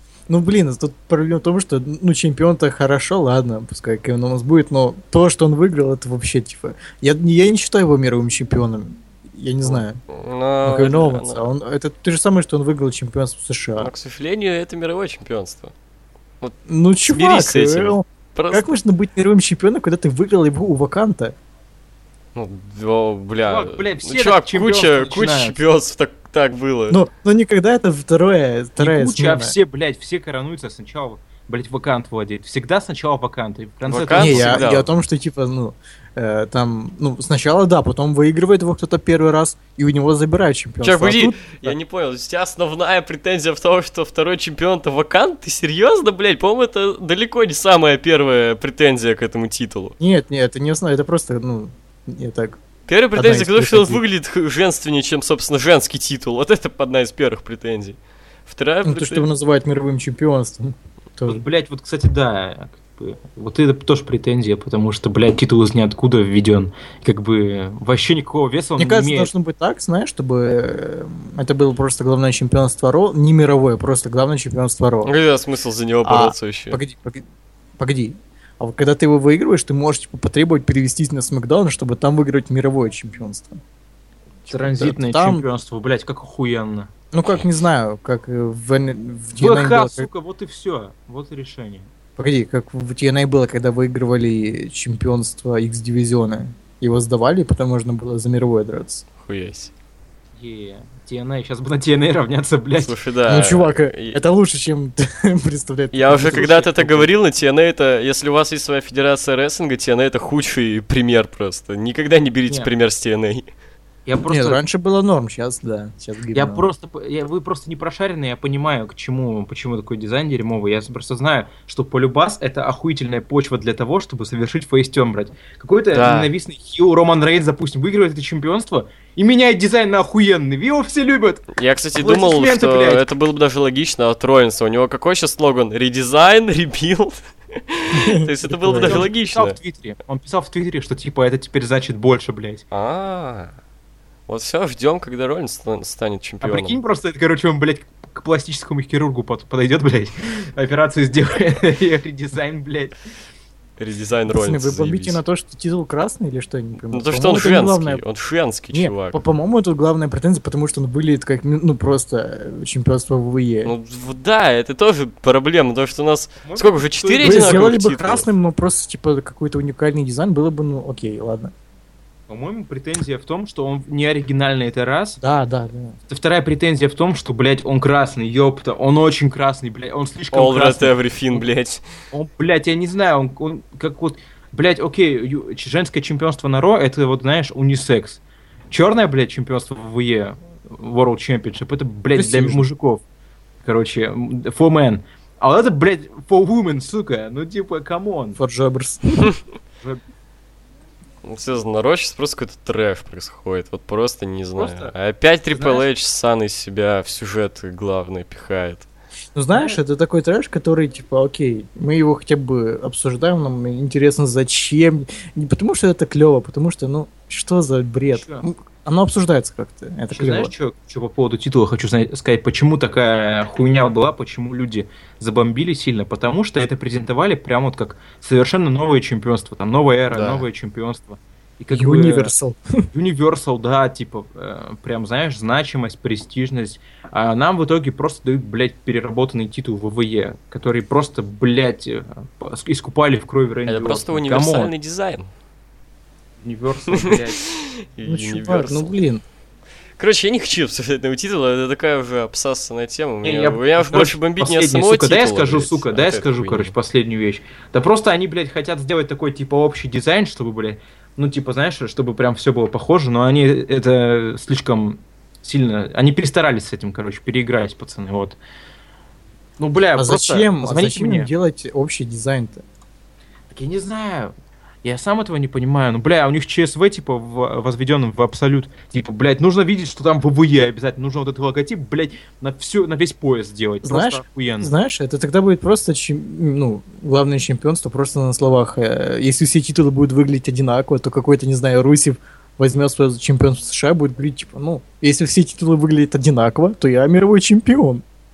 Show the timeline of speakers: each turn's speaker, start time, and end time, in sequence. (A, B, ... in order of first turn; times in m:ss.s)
0:00.3-0:10.0 A
0:09.6-0:11.5 B
0:10.6-0:13.9 A
0:13.8-0:15.7 B
0:16.7-0:21.4 A
0:17.1-0:18.7 B
0:22.4-0:27.0 B
0:23.4-0:25.6 C
0:26.9-0:29.6 A
0:28.8-0:34.7 C
0:33.9-0:34.9 B
0:34.2-0:41.8 A
0:40.8-0:50.0 B
0:50.0-0:52.6 A
0:52.9-0:59.3 B
0:53.2-0:54.0 A
0:58.8-1:01.4 A
1:01.3-1:09.3 C
1:08.8-1:15.1 A
1:15.0-1:16.8 B
1:16.0-1:17.3 A
1:17.8-1:23.6 A
1:24.5-1:25.5 A
1:24.5-1:26.9 C
1:27.1-1:30.1 A
1:29.4-1:31.9 C
1:32.2-1:39.1 A
1:39.2-1:39.7 B
1:40.4-1:43.0 C
1:42.8-1:44.2 B
1:43.3-1:47.0 A
1:45.9-1:53.5 B
1:46.3-1:46.9 C
1:54.1-1:54.6 C
1:54.3-1:56.7 A
1:56.4-2:13.2 C
2:05.9-2:06.3 B
2:11.5-2:19.6 B
2:17.9-2:19.0 A
2:18.8-2:22.6 C
2:22.7-2:23.5 B
2:24.3-2:26.8 B
2:26.4-2:33.0 C
2:33.8-2:35.2 B
2:34.3-2:38.0 A
2:36.8-2:39.2 B
2:38.7-2:43.7 A
2:43.6-2:48.3 B
2:46.4-2:47.7 C
2:47.2-2:51.5 A
2:52.3-2:55.2 C
2:55.2-2:56.0 A
2:56.1-3:01.5 C
3:00.3-3:01.8 B
3:02.1-3:13.0 C
3:12.2-3:12.6 A
3:13.6-3:18.4 C
3:18.4-3:19.3 A
3:21.2-3:28.9 B
3:24.6-3:24.9 C
3:25.5-3:25.9 C
3:29.4-3:40.5 A
3:29.5-3:29.8 C
3:38.1-3:38.5 C
3:40.1-3:52.3 C
3:50.1-3:50.4 B
3:51.7-3:52.9 A
3:52.9-4:04.7 C
4:03.7-4:05.3 B
4:06.4-4:07.4 C
4:06.9-4:09.0 B
4:08.0-4:09.2 A
4:10.0-4:16.7 B
4:13.2-4:28.4 C
4:29.6-4:31.3 C
4:30.0-4:32.6 A
4:33.5-4:44.7 C
4:43.8-4:58.0 A